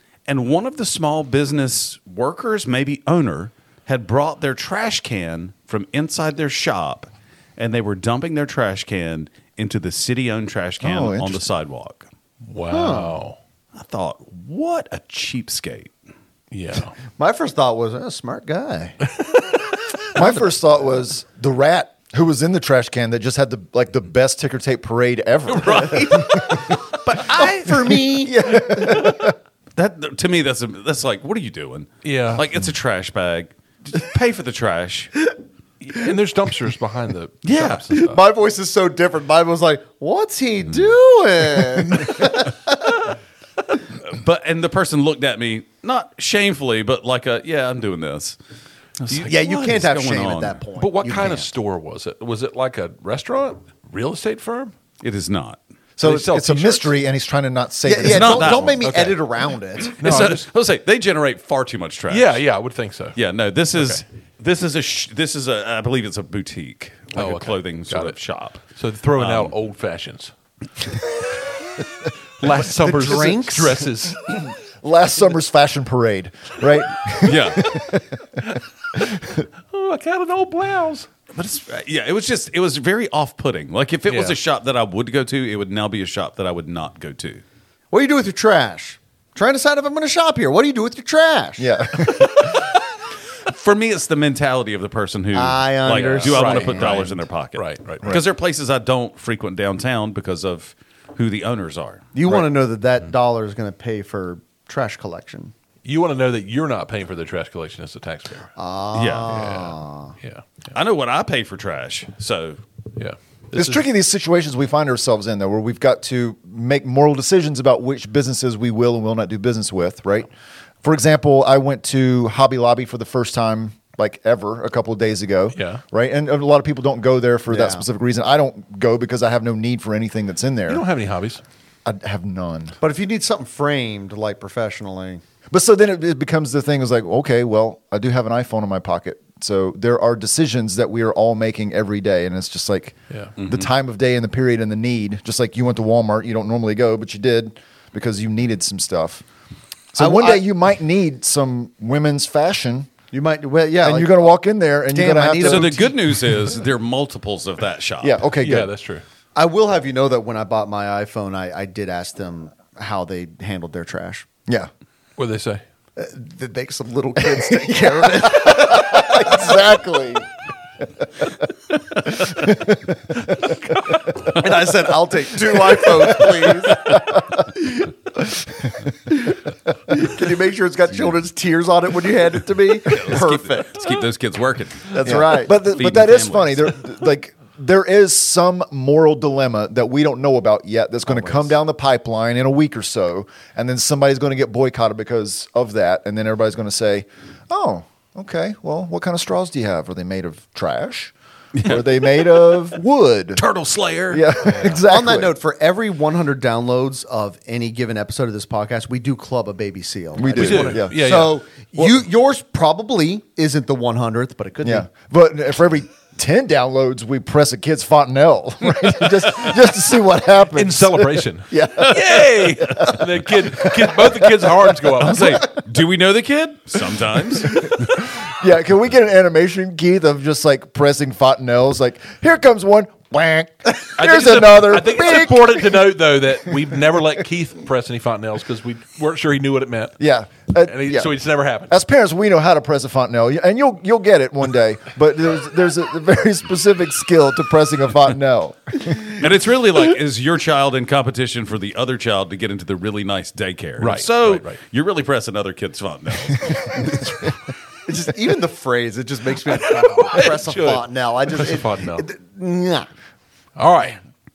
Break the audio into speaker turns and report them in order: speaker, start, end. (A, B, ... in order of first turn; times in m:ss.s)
0:00.3-0:12.1 A
0:10.8-0:11.4 B
0:12.4-0:13.4 C
0:12.7-0:13.2 D
0:13.7-0:15.9 A
0:16.5-0:17.0 C
0:17.2-0:19.0 D
0:20.1-0:26.8 B
0:25.7-0:26.5 C
0:26.9-0:28.3 D
0:28.1-0:29.3 B
0:29.8-0:35.1 A
0:32.0-0:32.5 C
0:35.8-0:38.2 C
0:37.4-0:37.9 A
0:37.9-0:43.1 D
0:43.9-0:48.4 A
0:49.0-0:50.6 A
0:49.2-0:51.5 D
0:50.8-0:54.7 C
0:55.0-0:55.6 A
0:56.0-0:57.0 C
0:56.0-0:58.8 B
0:57.9-1:00.0 D
0:58.0-0:59.2 A
0:59.8-1:02.4 A
1:00.0-1:00.5 C
1:02.1-1:03.2 C
1:03.2-1:08.6 A
1:03.7-1:04.0 C
1:07.1-1:08.2 C
1:08.7-1:10.3 C
1:09.2-1:09.5 A
1:12.4-1:14.4 C
1:12.8-1:13.8 D
1:14.5-1:18.4 B
1:17.2-1:17.7 A
1:19.6-1:21.1 C
1:21.3-1:27.4 A
1:24.1-1:24.4 C
1:27.9-1:31.7 D
1:31.6-1:32.5 B
1:33.4-1:42.1 A
1:35.3-1:37.2 D
1:35.9-1:38.1 C
1:42.1-1:45.5 D
1:45.8-1:48.5 C
1:48.6-1:50.2 D
1:48.9-1:49.4 A
1:49.3-1:50.4 C
1:50.7-1:52.6 A
1:53.0-1:53.9 C
1:53.5-2:00.3 B
2:00.8-2:10.8 B
2:05.5-2:05.8 C
2:07.5-2:07.9 D
2:10.7-2:11.4 C
2:11.8-2:12.8 B
2:12.8-2:15.2 D
2:15.5-2:29.2 B
2:23.4-2:23.7 A
2:29.9-2:32.9 B
2:30.0-2:30.5 D
2:33.1-2:34.3 D
2:33.8-2:36.0 B
2:34.9-2:35.9 D
2:35.4-2:38.3 A
2:38.0-2:38.7 B
2:38.4-2:39.0 C
2:39.4-2:44.3 D
2:45.2-2:45.6 C
2:46.0-2:49.5 D
2:47.9-2:50.2 B
2:52.1-2:53.9 B
2:54.2-2:57.5 D
2:59.1-3:03.8 D
3:02.9-3:06.7 A
3:04.9-3:21.1 B
3:05.0-3:05.5 D
3:11.1-3:11.5 D
3:21.6-3:21.8 A
3:21.6-3:23.4 B
3:23.4-3:24.4 A
3:24.1-3:25.4 B
3:24.4-3:24.8 C
3:24.8-3:34.9 D
3:30.2-3:31.0 B
3:30.3-3:31.4 C
3:34.6-3:44.9 B
3:40.5-3:45.5 C
3:45.0-3:47.7 A
3:47.7-3:55.9 B
3:54.0-4:00.0 C
4:00.0-4:01.1 B
4:00.6-4:01.8 C
4:01.7-4:09.1 B
4:09.2-4:17.2 A
4:13.8-4:14.6 C
4:17.9-4:22.9 D
4:19.5-4:22.1 C
4:23.6-4:24.0 C